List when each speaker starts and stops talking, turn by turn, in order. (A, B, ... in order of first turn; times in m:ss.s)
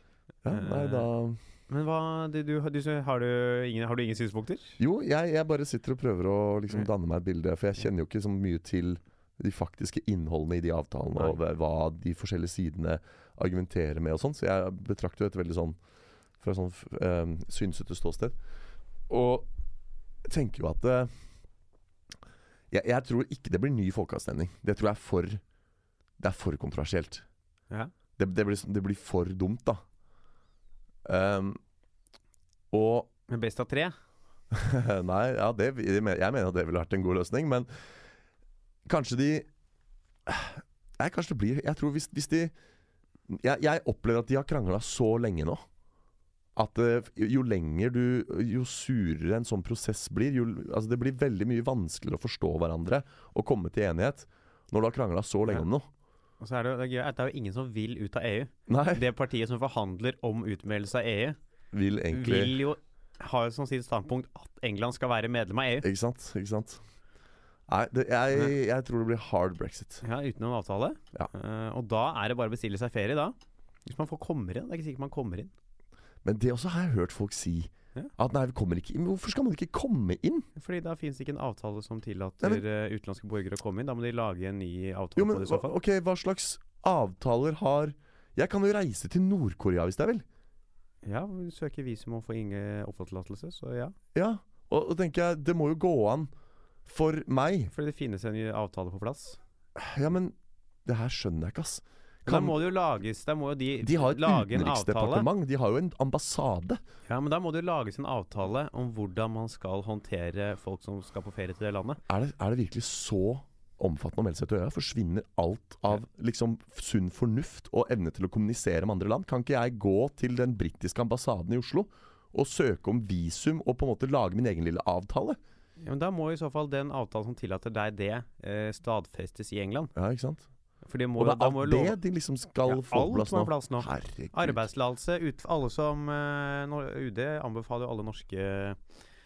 0:00.4-0:01.4 A
0:00.5-0:01.1 B
0:01.7-0:04.8 B
0:04.8-0:15.8 A
0:16.4-0:18.4 A
0:19.1-0:19.5 A
0:20.2-0:21.1 A
0:22.7-0:25.4 A
0:26.2-0:27.2 A
0:28.2-0:29.8 A
0:31.0-0:31.6 A
0:32.7-0:33.1 A
0:33.3-0:33.9 B
0:34.5-0:37.7 A
0:38.8-0:39.5 A
0:40.2-0:42.5 A
0:43.3-0:45.6 A
0:46.6-0:55.9 A
0:56.4-1:01.4 B
0:58.7-0:59.0 A
1:01.7-1:02.6 A
1:02.1-1:05.8 B
1:05.8-1:06.8 A
1:07.7-1:10.0 A
1:10.0-1:15.5 B
1:16.2-1:20.5 A
1:20.6-1:25.7 B
1:25.2-1:30.2 A
1:31.0-1:33.9 B
1:34.1-1:36.3 A
1:36.8-1:37.7 A
1:37.7-1:39.4 B
1:39.8-1:40.3 A
1:40.8-1:42.6 A
1:42.2-1:45.3 B
1:43.8-1:46.8 A
1:47.1-1:52.0 B
1:52.0-2:05.4 A
2:05.8-2:09.9 B
2:09.9-2:10.5 A
2:10.8-2:12.0 B
2:11.2-2:14.6 A
2:12.6-2:18.8 B